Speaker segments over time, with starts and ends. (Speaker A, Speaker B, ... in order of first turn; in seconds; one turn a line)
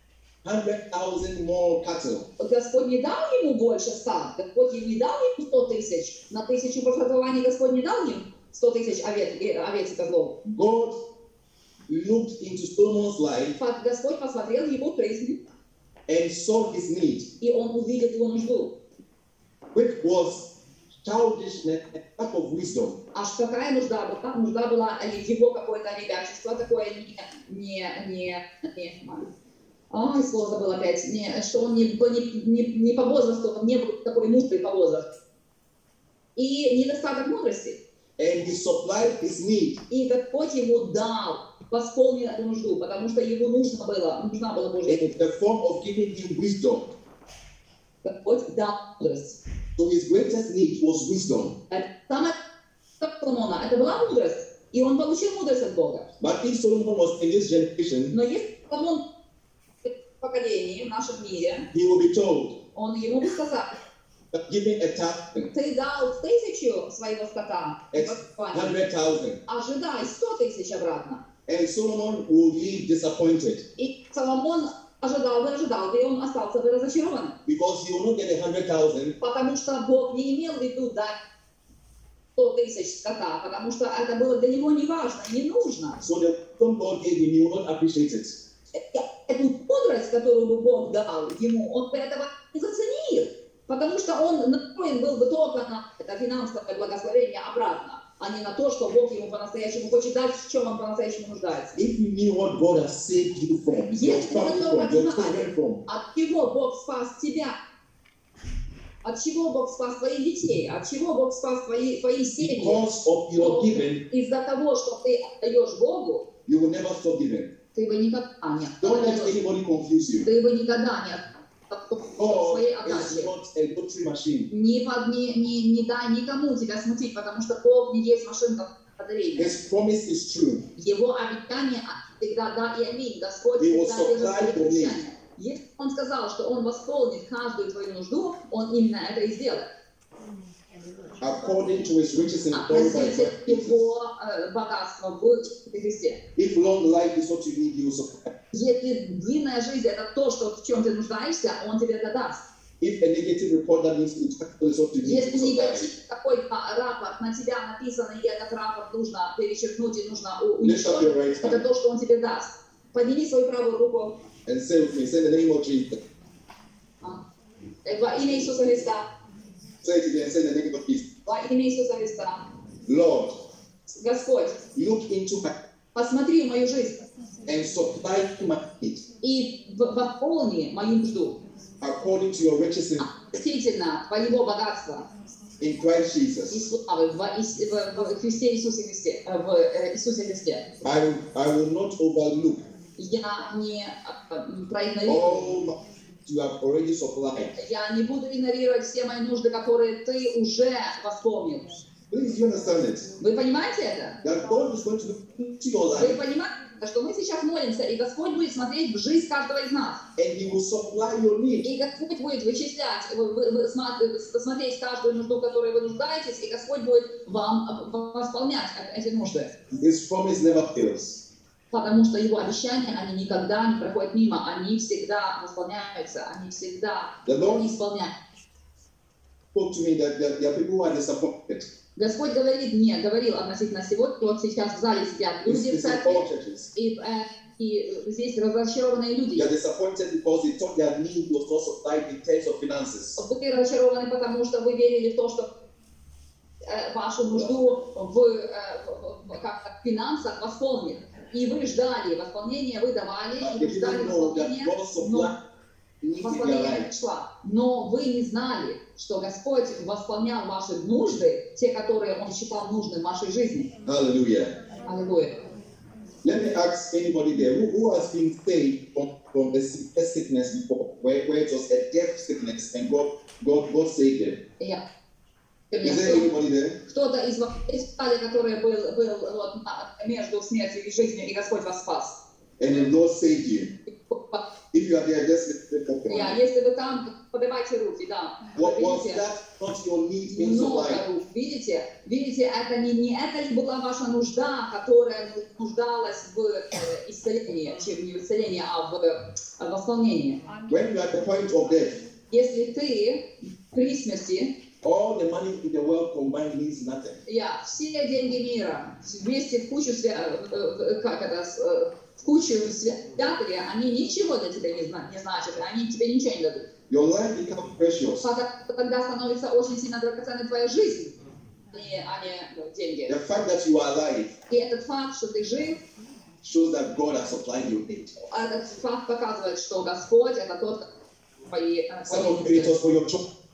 Speaker A: 0.4-2.3
Speaker B: 2.4-10.4
Speaker A: 10.4-11.1
Speaker A: 11.9-13.6
Speaker B: 13.6-15.4
Speaker A: 16.1-17.3
Speaker B: 17.4-18.7
Speaker A: 19.7-23.0
Speaker B: 23.1-29.3
Speaker B: 29.9-35.1
Speaker B: 36.4-37.8
Speaker A: 38.2-39.8
Speaker B: 39.9-45.0
Speaker A: 44.9-46.9
Speaker B: 48.0-49.4
Speaker A: 49.8-51.6
Speaker B: 51.7-52.4
Speaker B: 53.0-56.1
Speaker A: 56.2-58.1
Speaker B: 58.1-59.0
Speaker B: 59.8-61.7
Speaker A: 61.7-62.6
Speaker B: 62.7-63.7
Speaker A: 64.3-65.5
Speaker B: 65.5-68.8
Speaker A: 67.9-69.4
Speaker B: 69.5-71.2
Speaker A: 71.5-73.7
Speaker B: 73.8-77.3
Speaker A: 77.5-79.2
Speaker B: 79.2-81.2
Speaker B: 82.3-86.0
Speaker A: 86.0-88.4
Speaker B: 88.7-101.8
Speaker A: 101.8-105.8
Speaker B: 103.9-107.5
Speaker B: 109.0-112.8
Speaker A: 112.4-114.0
Speaker B: 113.4-116.3
Speaker A: 116.5-117.5
Speaker B: 117.7-119.3
Speaker A: 118.8-120.2
Speaker B: 120.2-123.3
Speaker A: 122.1-124.5
Speaker B: 124.5-129.5
Speaker A: 129.4-130.7
Speaker B: 130.8-139.7
Speaker A: 133.6-135.0
Speaker A: 141.2-143.9
Speaker B: 142.5-146.2
Speaker A: 146.3-148.3
Speaker B: 148.5-152.4
Speaker A: 152.8-155.9
Speaker B: 155.0-164.2
Speaker A: 160.6-161.6
Speaker A: 164.4-166.0
Speaker B: 167.8-169.0
Speaker A: 169.8-171.1
Speaker B: 171.2-172.4
Speaker A: 172.9-173.4
Speaker B: 173.9-174.6
Speaker A: 174.7-175.5
Speaker B: 175.9-177.0
Speaker A: 177.4-179.0
Speaker B: 179.2-181.4
Speaker A: 181.8-183.1
Speaker B: 183.1-185.1
Speaker A: 185.6-186.7
Speaker B: 186.5-190.7
Speaker A: 190.8-192.6
Speaker B: 193.0-195.5
Speaker A: 195.1-197.5
Speaker B: 197.6-201.7
Speaker A: 202.1-203.1
Speaker B: 203.2-204.2
Speaker A: 204.2-206.2
Speaker B: 205.9-210.0
Speaker A: 210.2-211.7
Speaker B: 211.6-219.5
Speaker A: 219.7-221.2
Speaker B: 221.7-228.1
Speaker A: 227.2-227.7
Speaker A: 229.5-231.7
Speaker B: 231.9-239.5
Speaker A: 235.4-236.7
Speaker A: 239.3-243.2
Speaker B: 243.2-245.5
Speaker B: 246.6-255.3
Speaker A: 253.4-255.3
Speaker A: 256.0-256.9
Speaker B: 256.2-263.7
Speaker A: 263.9-264.5
Speaker B: 264.9-265.3
Speaker A: 266.2-274.4
Speaker B: 275.7-276.3
Speaker A: 275.8-276.8
Speaker B: 276.9-282.2
Speaker A: 282.6-283.7
Speaker B: 284.1-284.4
Speaker A: 284.7-286.4
Speaker B: 286.1-289.2
Speaker A: 288.6-291.0
Speaker B: 290.3-300.4
Speaker A: 300.7-302.0
Speaker B: 302.3-304.6
Speaker A: 304.8-307.2
Speaker B: 307.3-316.7
Speaker A: 316.9-318.3
Speaker B: 318.2-321.1
Speaker B: 321.7-323.2
Speaker A: 323.1-324.3
Speaker B: 324.5-325.8
Speaker A: 326.4-328.1
Speaker B: 328.2-330.9
Speaker B: 331.5-332.7
Speaker A: 332.1-333.2